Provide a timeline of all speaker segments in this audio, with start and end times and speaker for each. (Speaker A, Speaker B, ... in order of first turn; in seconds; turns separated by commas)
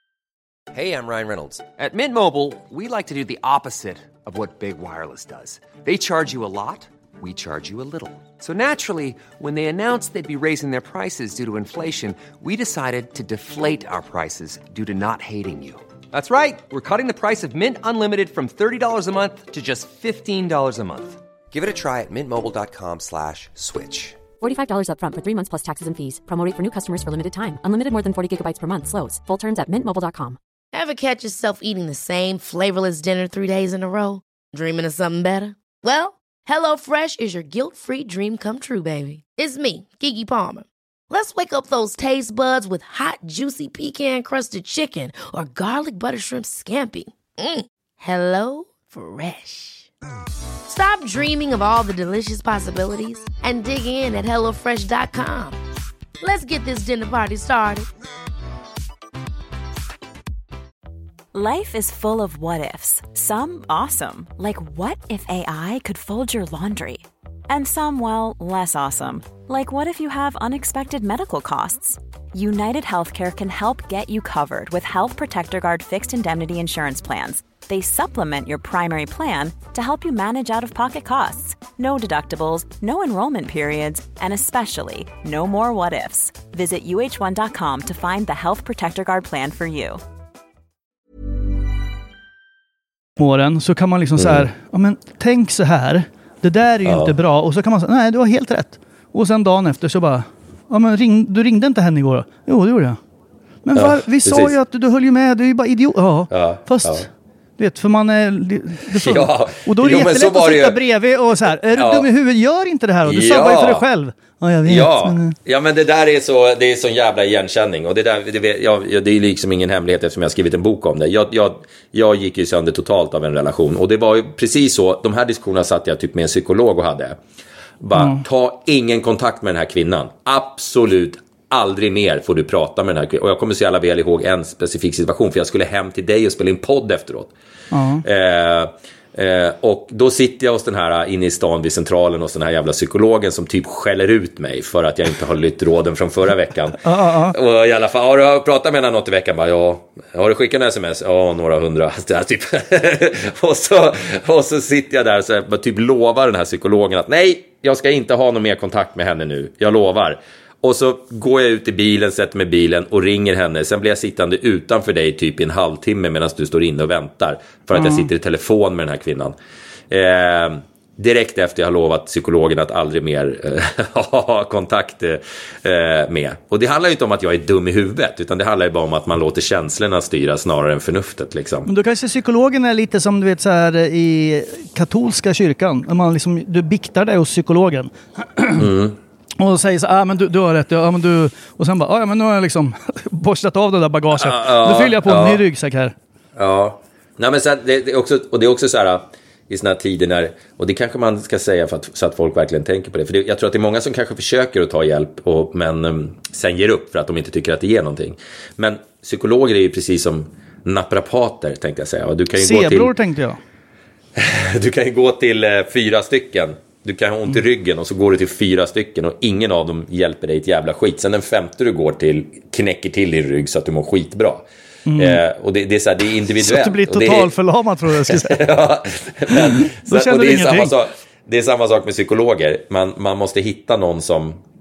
Speaker A: 0.7-24.2, Speaker B: 24.4-30.4, Speaker C: 30.7-49.9, Speaker C: 50.7-55.6, Speaker C: 56.2-57.9, Speaker D: 61.3-90.0, Speaker E: 93.2-103.0, Speaker F: 94.2-94.5, Speaker F: 96.8-97.1, Speaker E: 103.7-115.4, Speaker F: 103.8-104.6, Speaker F: 106.3-107.1, Speaker F: 108.9-110.8, Speaker F: 111.8-112.1, Speaker F: 113.0-113.8, Speaker F: 114.7-127.2, Speaker F: 127.8-137.3, Speaker E: 127.9-128.2, Speaker E: 137.7-138.1, Speaker F: 138.0-169.4, Speaker E: 146.8-147.4, Speaker E: 167.7-168.1, Speaker F: 169.9-181.7, Speaker E: 181.7-188.7, Speaker F: 188.6-189.0, Speaker E: 189.4-195.9, Speaker F: 194.1-195.4, Speaker F: 196.4-212.9, Speaker E: 212.3-213.4, Speaker F: 214.2-224.4, Speaker E: 224.9-225.2, Speaker F: 225.0-227.3, Speaker E: 226.4-228.5, Speaker F: 228.1-234.4, Speaker E: 229.3-230.7